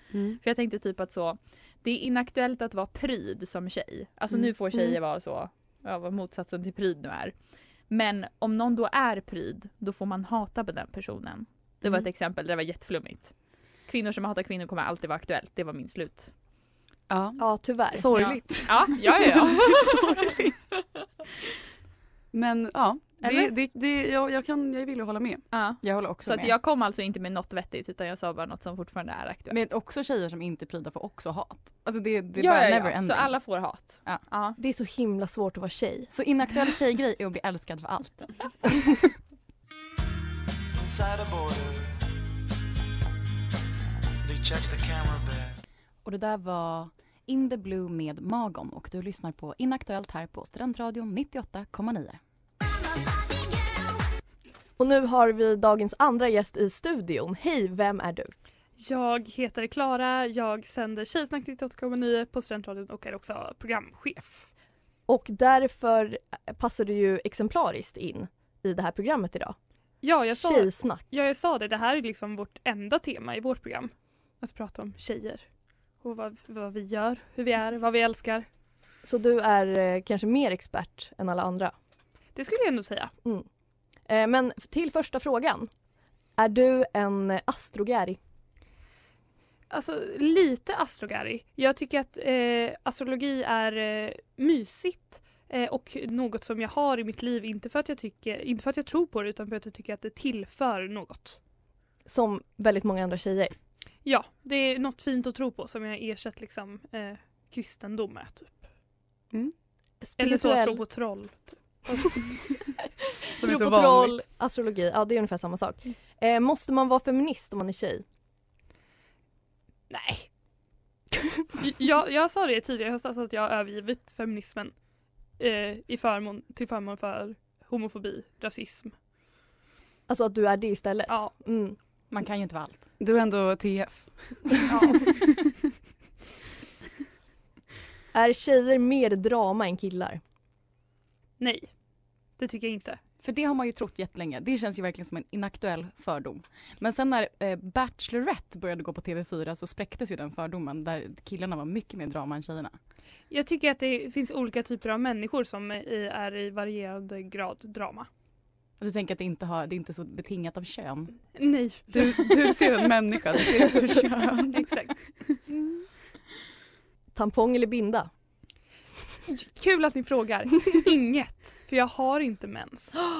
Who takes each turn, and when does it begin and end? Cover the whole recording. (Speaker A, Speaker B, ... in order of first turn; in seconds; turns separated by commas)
Speaker A: 0.1-0.4, Speaker B: 0.4-7.3, Speaker B: 7.9-13.3, Speaker B: 13.9-16.3, Speaker A: 17.1-20.5, Speaker C: 17.4-18.1, Speaker B: 18.1-20.4, Speaker A: 22.3-25.4, Speaker B: 25.5-29.6, Speaker D: 25.8-26.5, Speaker D: 29.5-34.2, Speaker B: 32.3-34.6, Speaker C: 34.6-36.1, Speaker D: 36.1-38.7, Speaker E: 40.8-41.8, Speaker E: 44.3-45.3, Speaker D: 46.0-52.2, Speaker C: 54.8-58.3, Speaker F: 58.8-64.5, Speaker C: 65.1-69.5, Speaker F: 70.0-75.4, Speaker C: 70.3-71.1, Speaker F: 76.0-78.5, Speaker C: 79.0-81.7, Speaker F: 82.3-83.1, Speaker C: 84.1-85.7, Speaker C: 86.4-88.2, Speaker F: 89.7-101.4, Speaker C: 102.1-103.5, Speaker F: 104.0-108.6, Speaker C: 110.0-110.8, Speaker F: 110.2-112.2, Speaker A: 113.4-114.2, Speaker C: 113.4-118.0, Speaker F: 119.9-120.3, Speaker F: 121.6-124.7, Speaker F: 125.4-128.9, Speaker C: 130.1-131.8, Speaker D: 132.1-132.8, Speaker A: 133.0-135.2, Speaker F: 134.7-135.0, Speaker C: 138.1-140.2, Speaker F: 141.4-141.7, Speaker F: 142.4-143.0, Speaker D: 143.2-152.8, Speaker F: 153.3-158.1, Speaker D: 158.8-161.1, Speaker F: 161.3-163.9, Speaker A: 161.9-164.7, Speaker F: 164.5-165.8, Speaker C: 167.1-168.1, Speaker F: 169.3-173.0